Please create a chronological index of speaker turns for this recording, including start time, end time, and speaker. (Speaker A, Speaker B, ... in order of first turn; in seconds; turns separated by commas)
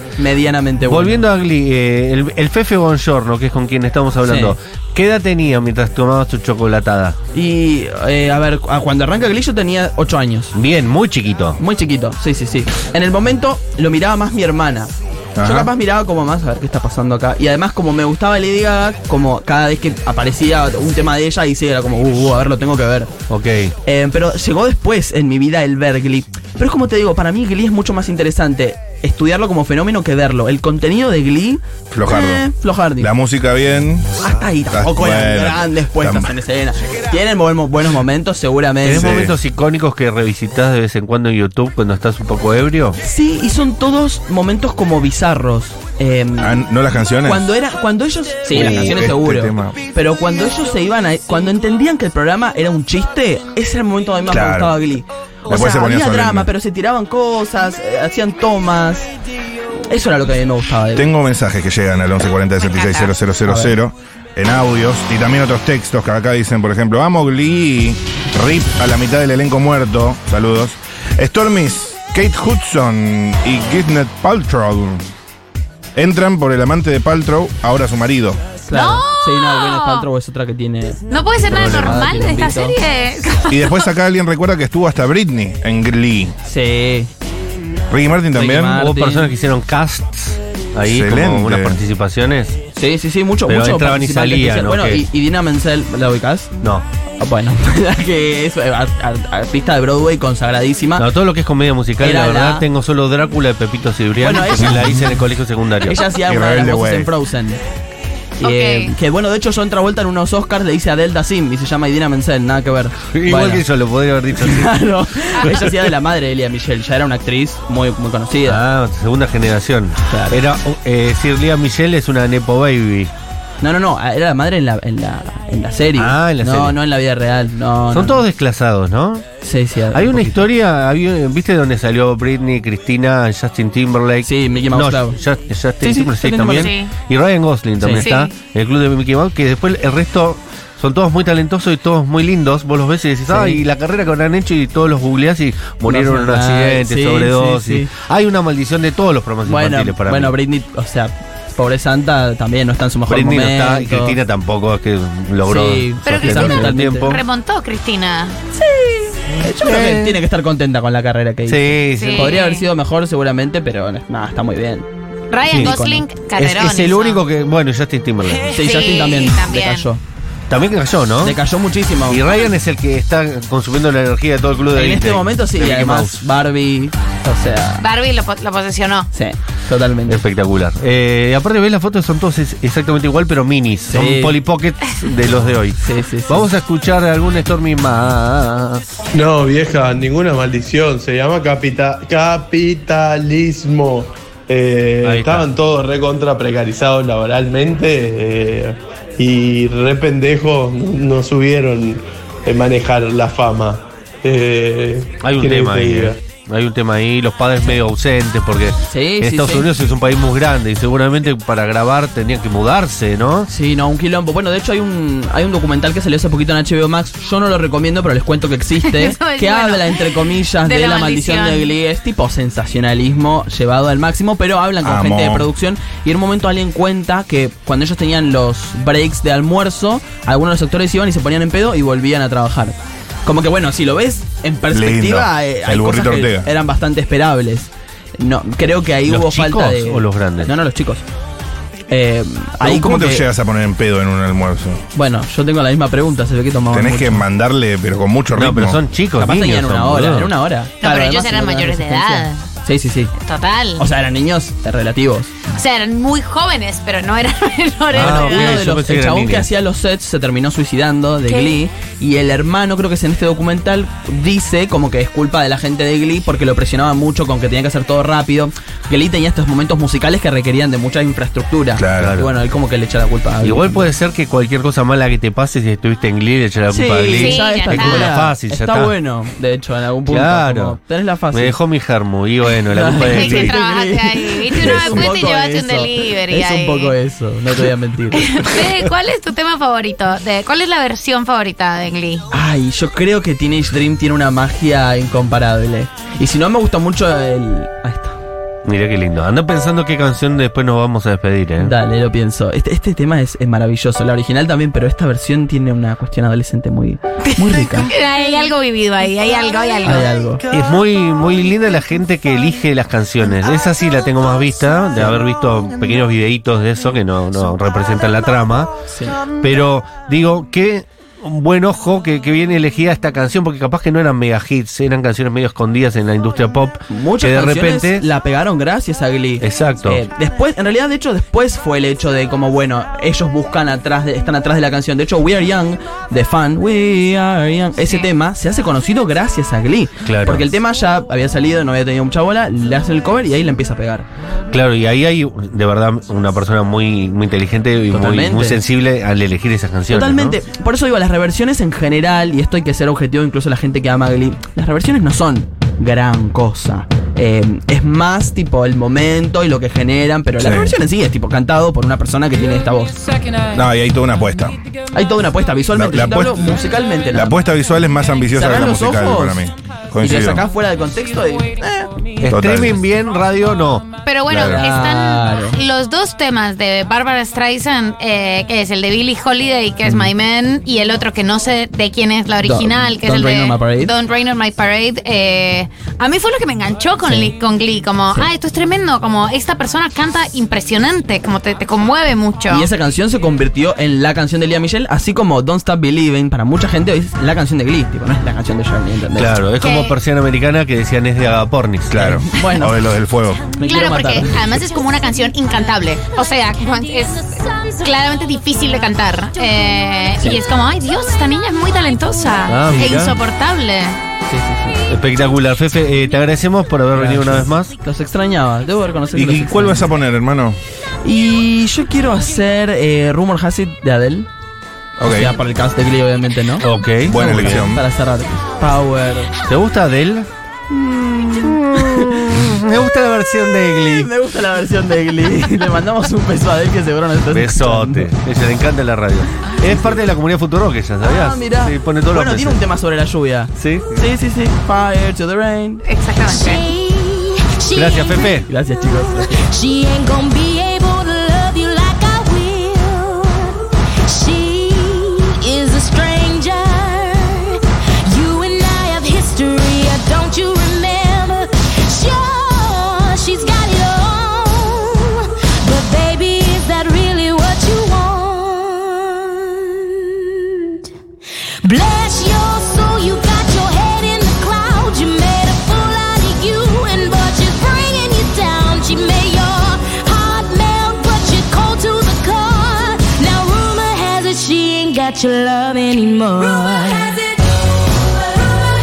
Speaker A: 0.2-1.2, Speaker B: 0.9-7.2, Speaker A: 4.2-4.5, Speaker A: 7.3-10.5, Speaker B: 10.5-11.6, Speaker A: 11.6-23.1, Speaker C: 15.4-15.7, Speaker B: 23.3-23.7, Speaker A: 23.8-33.1, Speaker C: 31.9-36.4, Speaker A: 34.2-39.2, Speaker B: 38.8-43.0, Speaker C: 38.9-39.4, Speaker A: 43.0-46.6, Speaker C: 46.4-47.5, Speaker A: 47.2-59.1, Speaker C: 48.5-49.8, Speaker C: 54.3-54.8, Speaker C: 55.5-56.5, Speaker A: 59.9-61.1, Speaker C: 61.0-75.1, Speaker D: 62.6-63.1, Speaker A: 63.5-63.7, Speaker C: 76.0-78.4, Speaker A: 78.7-82.8, Speaker D: 78.7-80.0, Speaker D: 81.1-83.9, Speaker B: 81.5-82.1, Speaker C: 83.5-86.3, Speaker A: 86.5-87.1, Speaker C: 87.9-88.8, Speaker A: 88.4-89.3, Speaker B: 88.8-92.6, Speaker C: 90.8-91.8, Speaker A: 92.8-96.5, Speaker B: 93.5-95.0, Speaker A: 97.2-101.1, Speaker B: 101.0-106.0, Speaker A: 102.0-102.7, Speaker A: 104.2-105.1, Speaker A: 105.9-107.6, Speaker C: 106.2-107.1, Speaker A: 108.4-113.7, Speaker D: 108.4-109.0, Speaker B: 113.1-114.9, Speaker A: 114.4-118.6, Speaker B: 118.5-123.1, Speaker A: 120.1-120.4, Speaker A: 123.6-128.2, Speaker B: 126.0-126.8, Speaker B: 127.9-129.3, Speaker A: 129.4-130.4, Speaker B: 129.9-150.3, Speaker A: 134.2-135.2, Speaker A: 135.8-136.7, Speaker D: 136.6-136.9, Speaker A: 137.8-138.1, Speaker D: 138.0-138.3, Speaker A: 143.3-143.6, Speaker A: 145.9-147.9, Speaker A: 149.5-154.2, Speaker B: 153.1-157.2, Speaker A: 155.5-157.1, Speaker D: 156.1-158.4, Speaker A: 158.5-164.9, Speaker B: 159.5-160.2, Speaker B: 161.5-162.3, Speaker D: 161.9-162.7, Speaker D: 165.3-167.2, Speaker A: 165.5-166.0, Speaker B: 166.4-168.6, Speaker A: 168.5-170.0, Speaker D: 168.6-169.9, Speaker B: 170.5-171.4, Speaker A: 171.2-172.2, Speaker B: 172.1-176.2, Speaker A: 174.7-177.8, Speaker D: 177.8-179.1, Speaker A: 179.1-180.2, Speaker B: 180.1-188.8, Speaker A: 183.9-184.3, Speaker A: 185.8-186.5, Speaker E: 189.1-206.2, Speaker B: 195.0-195.5, Speaker B: 205.2-213.5, Speaker A: 208.9-209.7, Speaker A: 213.5-241.1, Speaker D: 218.9-221.7, Speaker C: 224.8-225.5, Speaker C: 234.7-236.5, Speaker B: 239.1-240.5, Speaker A: 241.9-243.2, Speaker C: 242.6-244.8, Speaker A: 244.9-247.2, Speaker C: 246.7-248.8, Speaker B: 248.3-250.3, Speaker A: 249.2-253.1, Speaker D: 250.8-252.4, Speaker D: 253.2-253.8, Speaker A: 253.8-255.4, Speaker D: 255.5-258.6, Speaker B: 257.9-259.5, Speaker A: 257.9-273.9, Speaker D: 261.3-261.6, Speaker C: 271.8-272.2, Speaker B: 272.0-272.3, Speaker B: 273.4-278.9, Speaker A: 276.7-281.6, Speaker D: 277.1-278.1, Speaker B: 280.1-280.8, Speaker B: 281.3-283.6, Speaker A: 282.7-288.4, Speaker D: 283.0-286.9, Speaker B: 284.6-285.1, Speaker D: 288.2-292.3, Speaker A: 292.3-298.2, Speaker B: 298.6-301.7, Speaker A: 301.6-307.9, Speaker D: 307.3-310.1, Speaker A: 309.8-310.4, Speaker B: 310.5-328.0, Speaker A: 318.9-319.2, Speaker A: 326.9-344.1, Speaker B: 329.4-330.0, Speaker B: 340.1-340.5, Speaker B: 344.5-350.4, Speaker A: 347.9-348.6, Speaker A: 349.9-363.0, Speaker C: 360.4-360.8, Speaker C: 363.5-364.6, Speaker A: 364.9-367.4, Speaker C: 365.7-370.5, Speaker A: 368.3-369.4, Speaker A: 370.0-371.9, Speaker B: 372.2-373.9, Speaker C: 372.2-372.8, Speaker D: 374.1-392.7, Speaker C: 374.3-374.6, Speaker A: 374.3-375.6, Speaker A: 382.4-383.9, Speaker A: 387.0-387.3, Speaker A: 392.5-399.4, Speaker B: 399.2-402.0, Speaker D: 399.6-399.9, Speaker C: 401.9-403.4, Speaker A: 402.0-402.8, Speaker A: 403.6-404.4, Speaker D: 403.6-414.0, Speaker F: 407.0-407.7, Speaker B: 412.5-413.2, Speaker A: 414.3-414.8, Speaker B: 414.9-417.7, Speaker A: 416.9-419.9, Speaker C: 419.1-420.6, Speaker A: 421.0-424.3, Speaker C: 425.0-425.3, Speaker A: 425.0-429.3, Speaker B: 426.6-427.7, Speaker C: 427.1-427.8, Speaker B: 429.5-430.3, Speaker A: 430.7-432.5, Speaker B: 431.3-434.1, Speaker A: 433.7-438.1, Speaker B: 437.3-442.6, Speaker A: 439.6-439.9, Speaker A: 441.0-445.8, Speaker B: 443.6-444.0, Speaker D: 445.9-446.7, Speaker F: 446.3-448.4, Speaker B: 447.7-448.5, Speaker A: 448.5-449.4, Speaker F: 448.9-470.7, Speaker F: 471.6-487.3